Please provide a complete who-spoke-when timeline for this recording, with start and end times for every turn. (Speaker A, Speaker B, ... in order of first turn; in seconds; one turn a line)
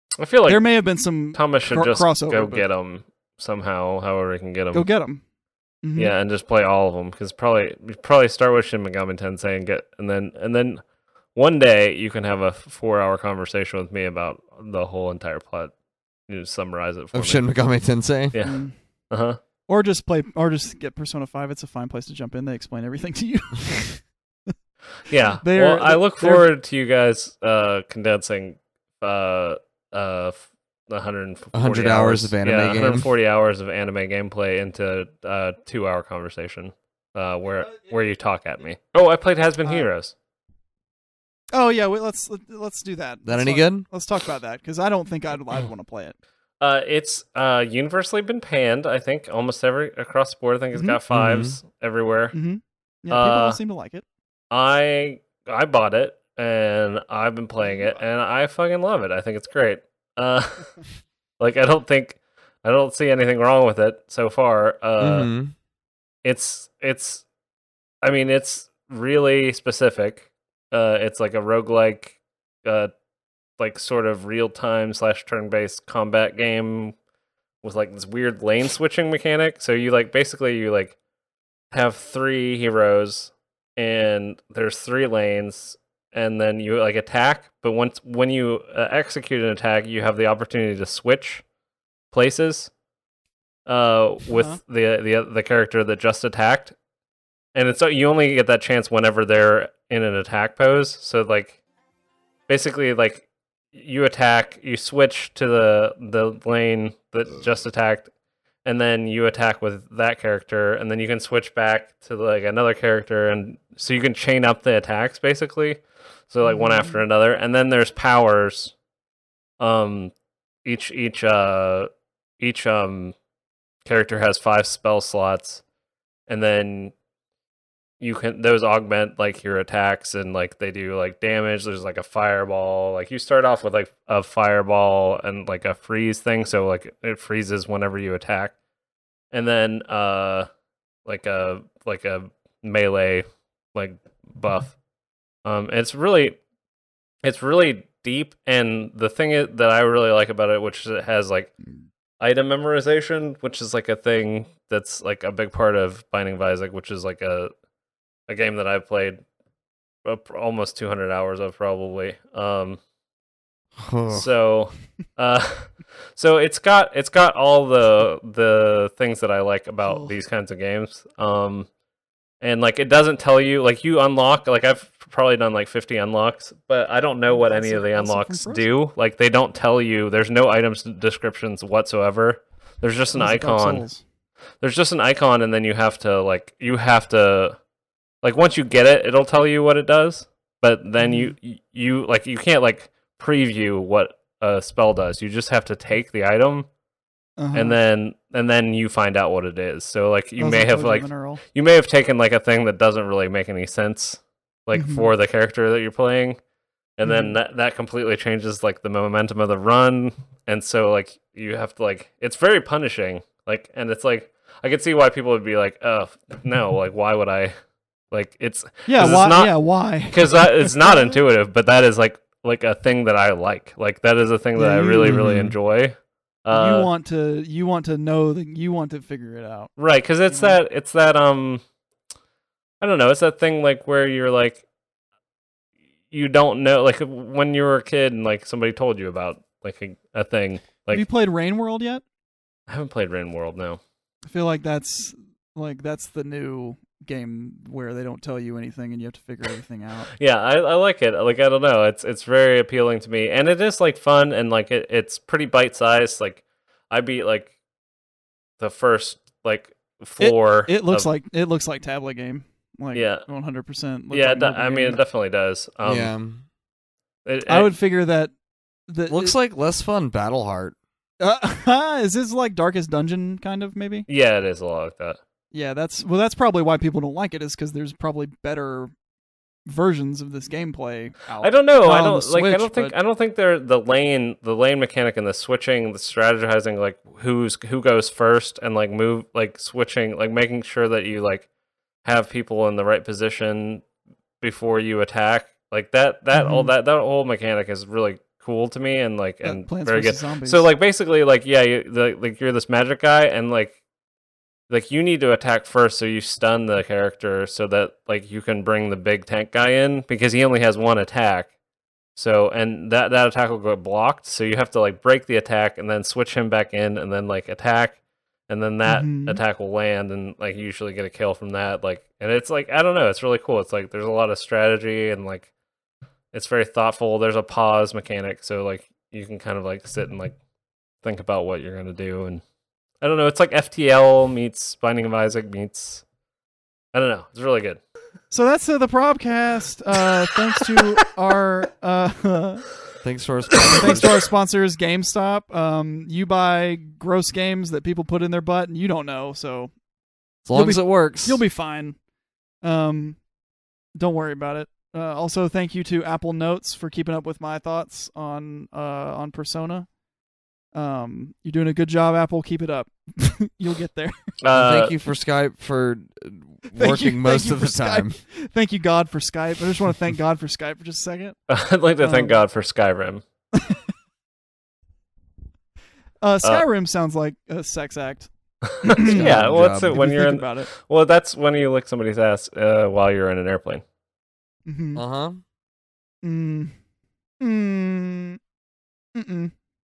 Speaker A: 0.2-0.8
Speaker B: 0.5-2.7
Speaker A: 1.3-4.9
Speaker B: 4.7-5.2
Speaker B: 5.8-6.2
Speaker A: 6.0-10.8
Speaker A: 11.3-15.7
Speaker A: 16.3-17.6
Speaker C: 17.1-18.4
Speaker A: 18.3-19.4
Speaker B: 18.4-18.7
Speaker B: 19.7-24.0
Speaker A: 25.1-40.1
Speaker B: 25.4-26.5
Speaker C: 31.5-33.1
Speaker B: 41.5-46.2
Speaker C: 43.2-43.9
Speaker A: 46.6-52.4
Speaker C: 51.1-51.6
Speaker B: 52.3-54.0
Speaker A: 53.1-53.6
Speaker A: 54.5-60.8
Speaker A: 61.4-65.3
Speaker C: 65.0-65.5
Speaker A: 66.2-67.2
Speaker A: 68.0-72.9
Speaker A: 73.6-77.0
Speaker A: 77.6-81.0
Speaker A: 81.7-91.4
Speaker A: 92.1-92.7
Speaker A: 93.7-96.7
Speaker B: 94.3-94.6
Speaker A: 97.5-101.6
Speaker A: 102.5-108.1
Speaker A: 108.7-118.7
Speaker B: 116.4-117.0
Speaker A: 119.6-120.1
Speaker A: 120.7-121.9
Speaker A: 122.4-123.1
Speaker A: 123.8-125.6
Speaker A: 126.3-126.9
Speaker A: 128.0-138.5
Speaker A: 139.3-140.5
Speaker A: 141.1-144.7
Speaker A: 145.4-146.4
Speaker A: 147.2-151.5
Speaker A: 152.2-157.5
Speaker A: 158.3-159.2
Speaker A: 160.1-162.8
Speaker C: 163.8-164.3
Speaker A: 164.1-171.7
Speaker B: 169.9-170.1
Speaker A: 172.4-183.8
Speaker B: 177.3-178.7
Speaker B: 183.1-184.0
Speaker A: 184.6-187.6
Speaker A: 188.2-196.7
Speaker B: 191.0-191.3
Speaker B: 197.4-197.8
Speaker A: 197.5-206.4
Speaker B: 200.4-201.4
Speaker B: 204.7-205.1
Speaker A: 207.0-217.5
Speaker B: 207.1-207.3
Speaker A: 218.1-226.9
Speaker B: 218.9-221.2
Speaker B: 224.6-225.3
Speaker C: 225.1-225.6
Speaker B: 226.5-229.7
Speaker A: 229.8-231.6
Speaker B: 230.3-230.6
Speaker A: 232.8-234.6
Speaker A: 236.1-241.1
Speaker B: 240.9-242.0
Speaker A: 242.7-243.8
Speaker B: 244.3-250.1
Speaker A: 250.2-257.5
Speaker A: 258.6-261.1
Speaker B: 260.2-265.0
Speaker A: 262.9-263.2
Speaker A: 264.1-266.1
Speaker C: 265.8-266.4
Speaker A: 267.3-267.7
Speaker B: 267.5-268.3
Speaker B: 268.9-269.4
Speaker C: 269.1-270.8
Speaker B: 271.2-274.1
Speaker A: 274.1-275.2
Speaker B: 275.5-278.9
Speaker B: 279.7-282.9
Speaker A: 281.4-291.5
Speaker A: 292.0-293.8
Speaker A: 294.4-303.8
Speaker B: 296.3-296.7
Speaker B: 299.4-300.7
Speaker A: 304.7-311.5
Speaker A: 312.2-318.0
Speaker A: 318.5-325.5
Speaker B: 318.9-319.4
Speaker A: 326.3-330.4
Speaker A: 331.0-332.4
Speaker A: 333.0-336.0
Speaker A: 336.9-337.8
Speaker B: 338.3-342.7
Speaker C: 343.0-344.3
Speaker B: 343.7-349.7
Speaker C: 350.5-351.4
Speaker B: 350.5-352.0
Speaker B: 352.6-353.2
Speaker B: 354.0-359.9
Speaker B: 360.7-364.3
Speaker A: 364.4-364.9
Speaker C: 364.5-368.2
Speaker B: 366.7-371.4
Speaker A: 371.5-373.2
Speaker B: 372.0-372.4
Speaker B: 373.5-373.9
Speaker B: 376.2-378.3
Speaker A: 378.7-383.8
Speaker B: 378.8-380.7
Speaker C: 378.9-380.1
Speaker B: 384.7-385.0
Speaker C: 384.9-385.4
Speaker B: 386.2-386.8
Speaker B: 387.4-388.4
Speaker B: 389.1-389.5